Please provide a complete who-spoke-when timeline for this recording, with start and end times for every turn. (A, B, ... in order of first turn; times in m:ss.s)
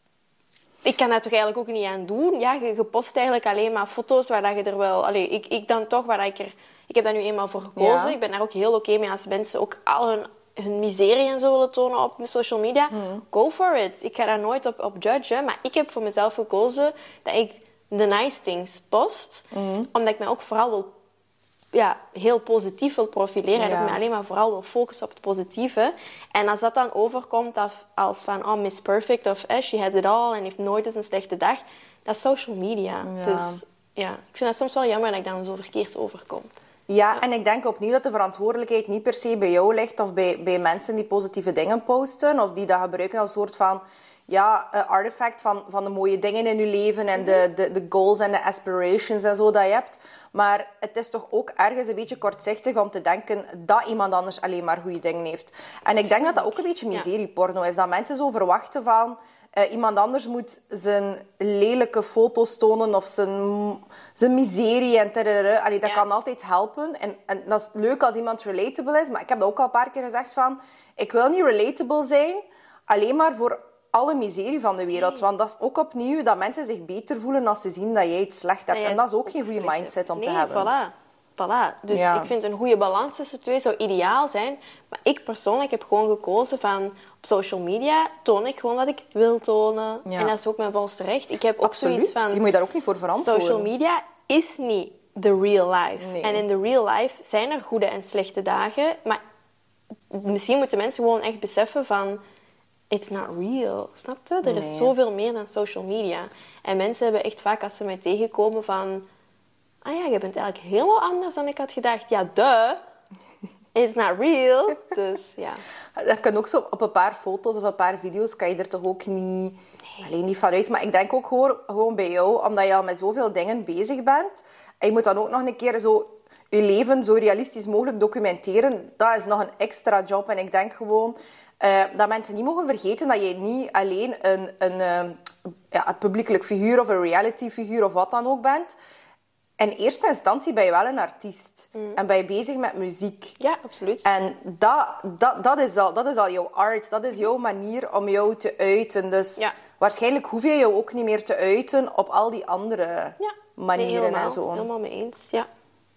0:00.8-0:20.9 A
0:07.8-0:08.2 B
0:12.9-0:13.2 B
0:19.5-0:19.9 B
0:21.7-0:36.5 A
0:23.6-0:24.0 B
0:33.0-0:33.6 B
0:36.9-1:20.7 B
0:55.9-0:57.1 A
1:18.7-1:32.4 A
1:21.9-1:22.3 B
1:30.1-1:30.3 B
1:31.6-1:33.7 B
1:33.1-1:39.2 A
1:36.0-1:36.4 B
1:40.1-1:42.2 A
1:42.9-1:49.1 A
1:44.4-1:44.9 B
1:49.8-1:52.8 A
1:53.8-1:55.6 A
1:56.0-2:18.8 B
2:19.6-2:23.4 B
2:23.4-2:24.0 A
2:24.0-2:34.7 B
2:33.2-2:35.5 A